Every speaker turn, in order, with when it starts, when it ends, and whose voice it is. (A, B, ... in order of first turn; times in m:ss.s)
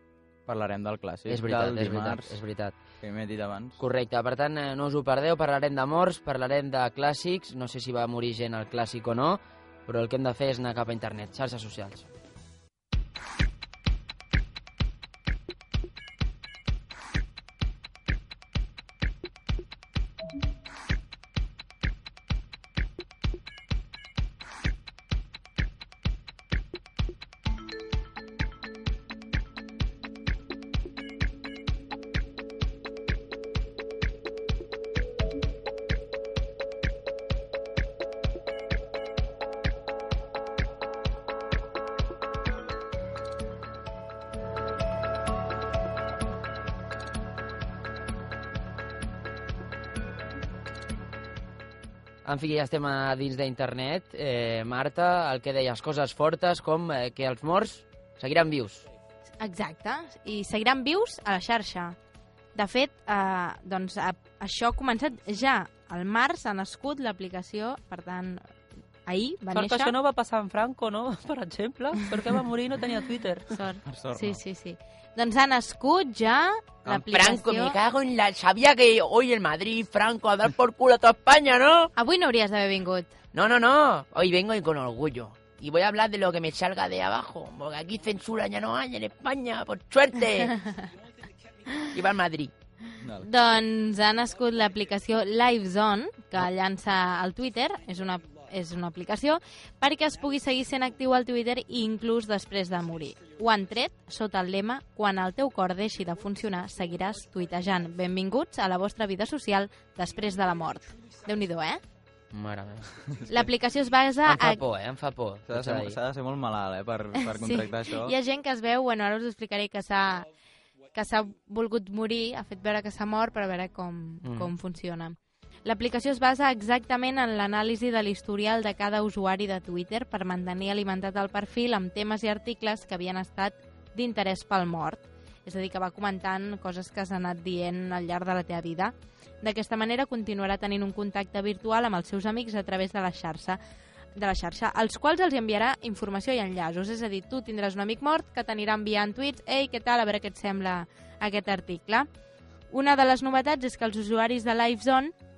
0:00.5-0:02.4 A
0:01.3-0:02.7 B
0:03.0-0:03.8 A
0:03.8-0:12.1 B
0:52.2-0:58.9 B
0:59.4-1:02.0 C
1:02.5-1:08.5 C
1:09.1-1:10.0 C
1:09.5-1:13.5 D
1:13.5-1:17.8 C
1:13.8-1:14.4 A
1:16.8-1:21.9 E
1:22.0-1:23.2 C
1:23.3-1:30.5 E
1:31.9-1:32.5 E
1:33.0-1:33.3 A
1:33.2-1:51.8 C
1:52.3-1:52.9 B
1:53.1-1:53.4 A
1:53.3-1:54.6 C
1:54.2-1:56.0 B
1:55.5-1:58.2 A
1:57.2-2:00.3 C
2:00.9-2:23.6 C
2:04.2-2:04.5 B
2:24.2-2:32.1 C
2:32.7-2:35.1 C